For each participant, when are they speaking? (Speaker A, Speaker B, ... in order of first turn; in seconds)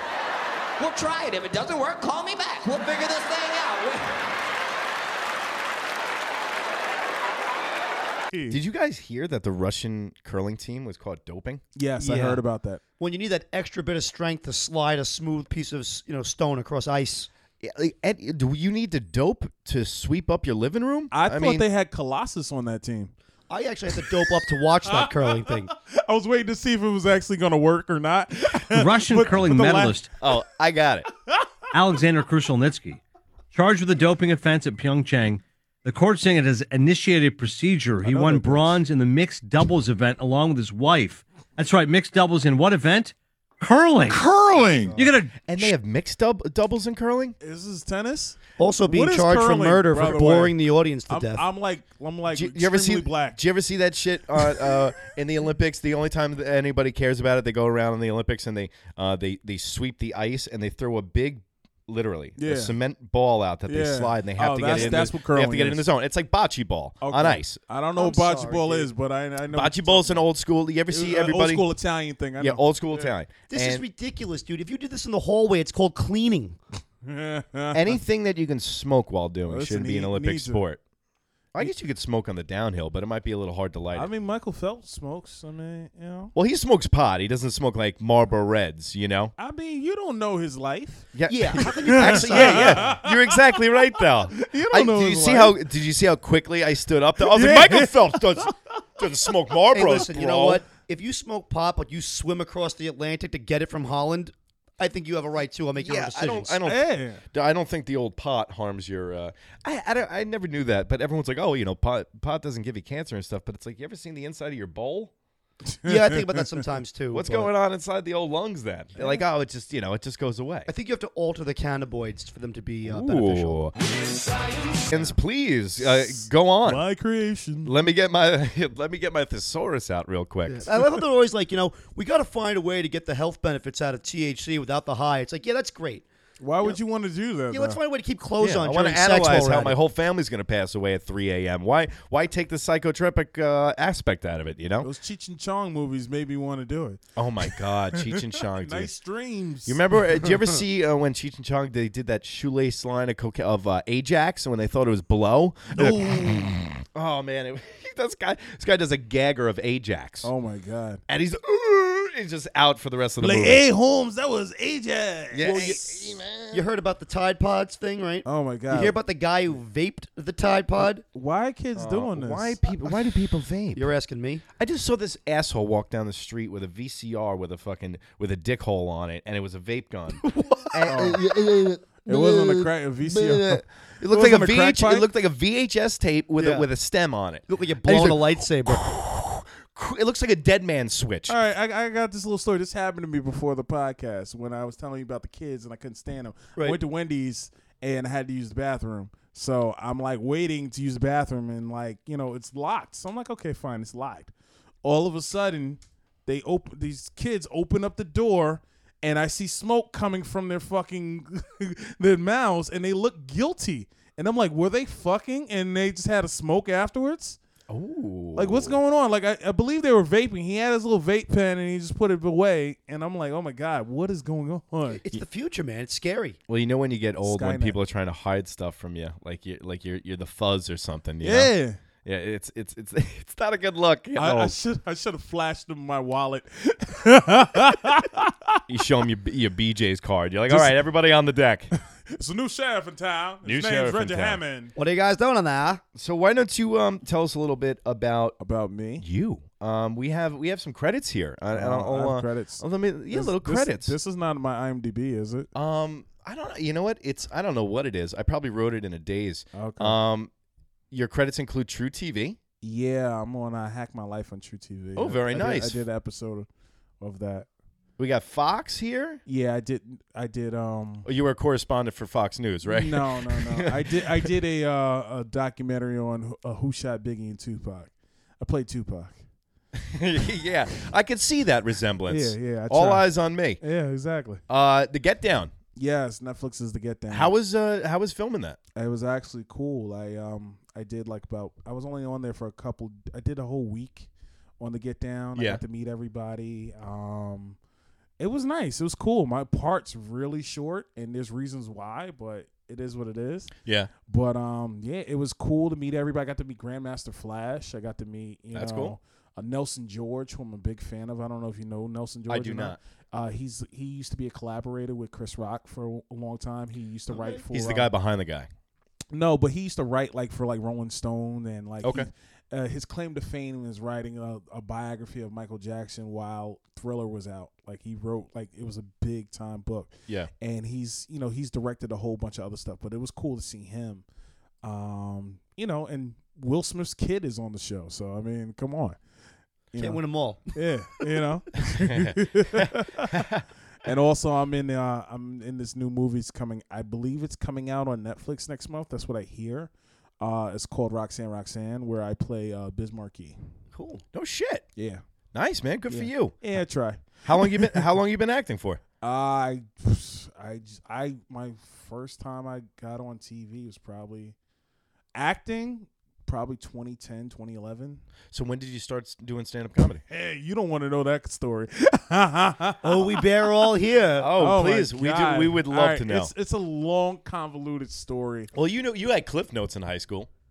Speaker A: 0.8-4.2
Speaker B: 8.3-8.6, 11.8-12.8, 21.1-23.1, 24.8-30.0, 38.0-38.8, 44.1-44.9, 47.4-50.5, 51.1-53.4, 62.4-62.7, 63.6-65.9, 67.0-70.3, 70.9-73.1, 77.0-78.0, 79.5-80.6, 83.9-86.3, 89.4-93.6, 94.3-95.6, 97.2-98.5, 106.6-107.2, 115.8-116.5, 126.0-127.7, 136.4-137.8, 144.8-147.0, 147.5-150.6, 155.7-156.6, 160.2-161.0, 163.2-165.8, 168.2-169.0, 171.1-172.6, 180.9-181.2, 182.1-185.1, 191.3-204.3, 204.8-217.4, 218.4-225.0, 227.2-227.8, 231.2-231.8, 234.2-238.6, 240.5-240.8, 241.7-244.7, 248.4-249.1, 251.5-255.5, 259.5-260.0, 262.6-266.5, 267.0-267.5, 269.3-271.1, 272.6-279.2, 282.1-283.1, 283.6-284.4, 285.8-287.3, 288.8-294.1, 294.6-297.6, 298.2-303.5, 304.1-317.9, 319.1-334.1, 334.6-339.0, 339.7-340.0, 340.5-343.2, 343.8-349.7, 350.2-353.4, 354.8-355.0, 355.9-357.9, 359.0-364.3, 365.1-368.0, 370.1-373.7, 374.4-378.5
Speaker C: 8.5-11.6, 17.6-21.6, 30.2-31.1, 45.4-47.4, 52.3-67.6, 69.5-71.6, 72.4-73.9, 77.7-80.8, 81.5-84.1, 86.3-89.3, 91.1-100.6, 105.8-115.1, 117.1-120.7, 122.8-123.7, 124.9-126.8, 127.6-130.7, 138.4-144.9, 147.2-148.9, 149.7-160.3, 161.1-163.6, 165.3-166.6, 171.8-173.9, 174.6-181.4, 183.1-191.4, 217.7-218.8, 226.5-231.5, 232.0-234.6, 238.7-241.7, 243.4-244.4, 245.9-248.4, 249.0-253.9, 255.6-260.3, 260.9-262.4, 264.9-265.8, 268.0-269.2, 271.1-274.3, 279.7-283.6, 284.5-285.5, 287.1-288.6, 295.4-295.6, 303.6-303.9, 308.5-308.9, 312.3-312.8, 317.5-318.5, 321.8-322.1, 341.8-343.4, 354.1-354.6, 355.3-356.4, 357.2-358.8, 368.3-370.0, 374.2-376.3, 378.5-380.3
Speaker D: 12.0-12.4, 13.0-17.3, 23.5-25.7, 44.6-45.1, 48.6-51.4, 68.0-68.9, 73.5-76.6, 91.3-93.0, 99.7-106.5, 115.8-117.5, 119.0-119.2, 120.7-123.6, 124.9-125.1, 130.5-136.1, 137.5-139.8, 165.4-165.9, 166.5-171.0, 173.7-174.4, 180.2-182.2, 186.4-186.7, 187.5-188.8, 224.9-226.4, 244.8-245.8, 317.1-317.4, 339.8-340.5, 353.7-354.0, 372.8-374.3
Speaker E: 28.8-30.1, 31.7-33.0, 33.5-44.2, 45.0-45.3